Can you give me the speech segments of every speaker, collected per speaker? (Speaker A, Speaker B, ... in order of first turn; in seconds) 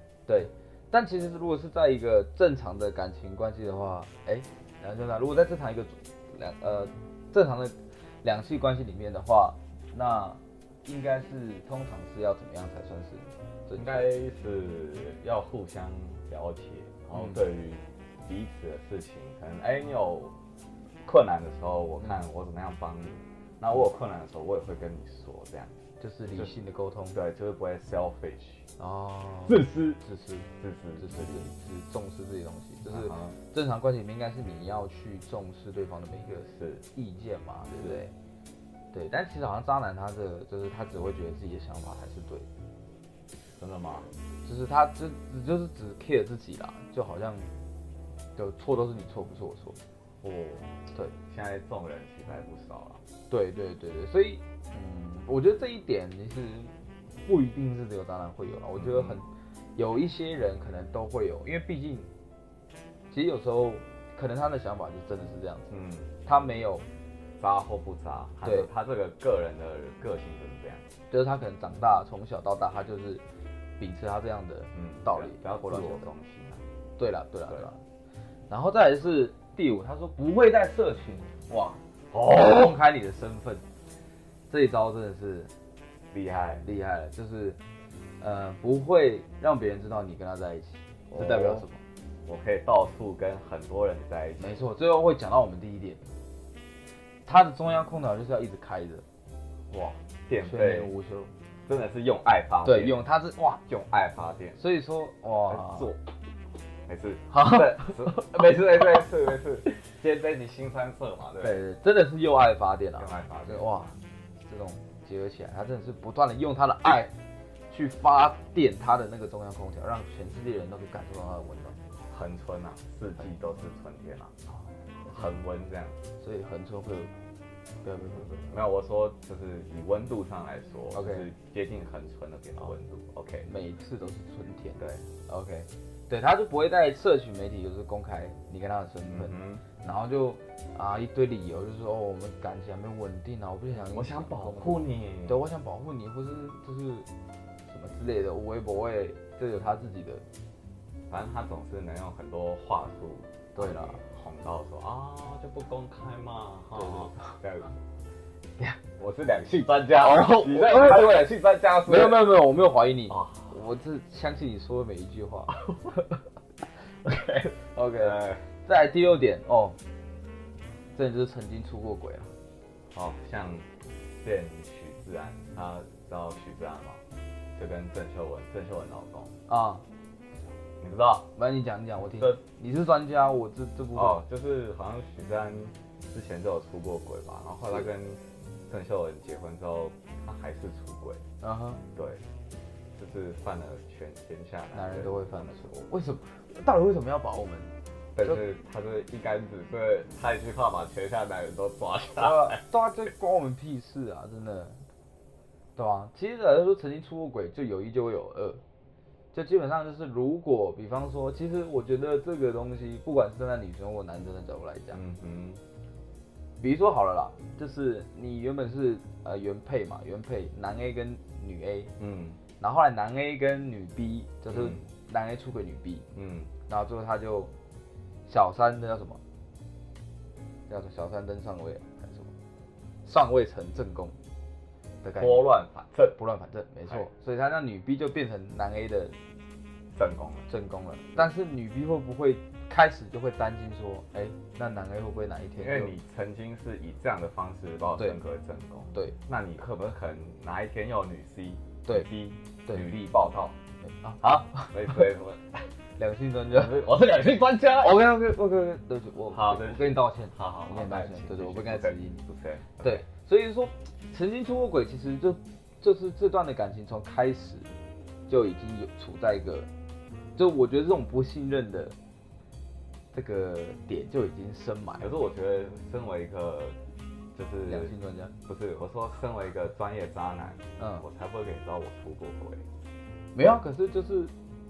Speaker A: 0.3-14.1, 17.1-17.4, 26.0-27.2, 28.8-38.1, 38.9-42.5, 44.4-47.5, 48.4-49.8, 53.3-56.7, 57.2-62.1, 63.1-65.7, 66.2-66.8, 68.4-68.7, 71.1-73.2, 73.8-76.1, 77.0-77.8, 78.5-83.6, 84.5-85.5, 86.6-87.6, 88.2-91.8, 94.4-96.0, 97.2-99.0, 100.4-101.3, 102.6-103.6, 104.6-105.9, 107.3-108.6, 111.4-117.1, 117.7-121.8, 126.2-127.1, 127.8-128.6, 130.9-131.3, 133.4-147.1, 147.7-150.2, 153.5-154.0, 156.8-157.3, 160.0-161.1, 161.8-165.7, 167.3-169.8, 170.9-172.3, 179.5-179.8, 181.3-184.2, 191.4-191.8, 194.7-198.4, 202.2-204.8, 205.8-208.6, 209.3-215.0, 216.6-221.9, 222.6-226.1, 226.7-227.5, 228.3-229.2, 230.7-232.3, 233.0-234.2, 235.0-235.4, 236.2-239.2, 240.5-245.9, 253.8-255.0, 256.0-256.8, 257.8-262.2, 262.8-267.7, 268.3-269.7, 270.4-271.9, 273.1-275.1, 277.6-278.3, 280.8-281.0, 283.3-284.3
Speaker B: 13.8-20.3, 21.0-25.8, 27.1-28.6, 29.5-30.0, 30.6-31.5, 32.9-33.4, 36.5-36.8, 37.7-38.0, 43.6-44.1, 50.2-50.7, 51.3-53.0, 58.7-59.2, 65.7-66.1, 67.4-70.8, 74.7-76.6, 82.1-82.7, 86.1-86.6, 91.1-91.7, 92.2-94.5, 99.7-100.9, 101.7-103.0, 103.6-104.6, 105.5-106.0, 106.9-111.6, 113.0-113.7, 122.1-124.3, 125.1-126.0, 128.5-133.5, 134.8-135.0, 139.1-139.6, 143.8-145.4, 151.1-157.7, 159.0-162.2, 163.1-163.5, 168.0-168.4, 172.9-173.7, 174.2-177.0, 177.6-179.3, 180.8-181.3, 183.9-191.2, 191.9-192.2, 192.9-195.9, 198.1-202.6, 214.9-215.6, 222.0-222.4, 224.5-224.8, 226.1-226.5, 235.2-236.2, 239.9-240.5, 245.6-253.6, 254.2-255.7, 256.5-257.9, 259.3-263.0, 275.0-276.8, 277.3-277.9, 278.5-282.6